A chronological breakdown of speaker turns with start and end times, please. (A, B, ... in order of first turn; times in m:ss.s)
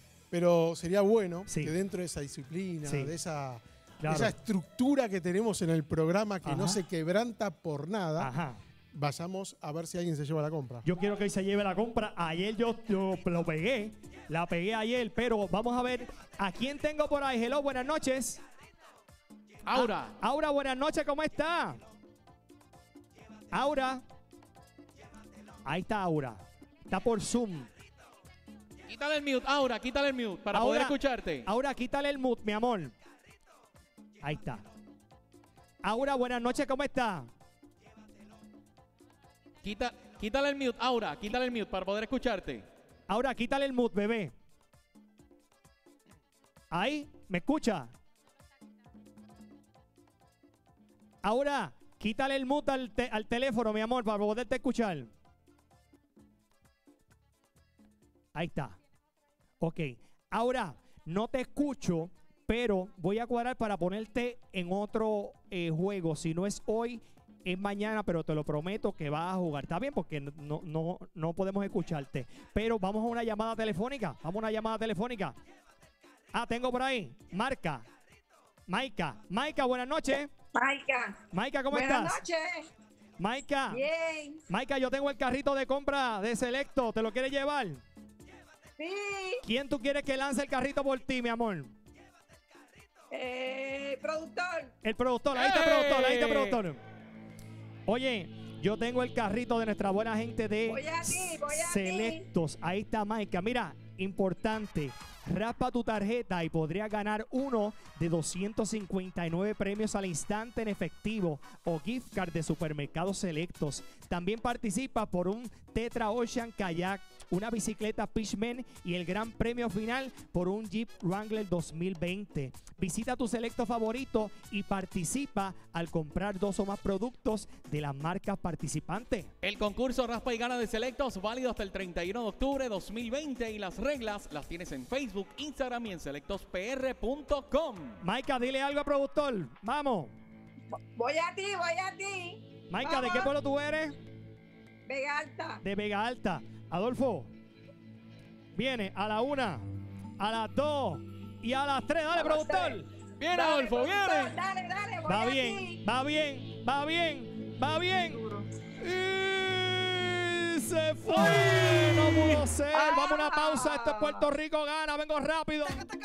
0:00.3-0:08.3 A
0:01.5-0:01.7 B
0:02.9-0:03.1 B
0:04.0-0:04.3 B
0:06.4-0:06.8 B
0:08.2-0:08.6 B
0:08.9-0:10.9 A
0:10.8-0:18.4 B
0:19.7-0:20.1 C
0:19.7-0:21.8 B
0:23.5-0:24.0 B
0:25.6-0:27.7 B
0:28.9-0:31.5 C
0:30.5-0:32.9 B
0:34.2-0:34.6 B
0:35.8-0:37.3 B
0:39.6-0:42.6 C
0:43.1-0:44.3 B
0:46.7-0:47.9 B
0:51.2-0:55.1 B
0:58.3-0:58.8 B
0:59.6-1:15.4 B
1:16.3-1:17.9 B
1:18.7-1:20.3 B
1:20.6-1:22.7 D
1:21.3-1:22.2 B
1:23.2-1:23.8 B
1:23.7-1:24.4 D
1:24.5-1:27.8 B
1:28.8-1:29.4 D
1:29.4-1:31.7 B
1:33.1-1:34.7 D
1:34.8-1:36.8 B
1:35.3-1:36.6 C
1:37.9-2:09.3 B
1:40.7-1:42.3 D
2:09.4-2:18.0 C
2:18.0-2:20.1 B
2:20.7-2:23.3 D
2:22.7-2:24.0 B
2:24.9-2:25.6 D
2:25.6-2:27.3 B
2:28.5-2:29.7 B
2:30.2-2:32.9 B
2:32.2-2:35.8 D
2:33.2-2:34.4 C
2:35.1-2:38.2 B
2:38.1-2:38.5 D
2:38.8-2:45.9 B
2:41.2-2:42.4 C
2:42.7-2:44.3 D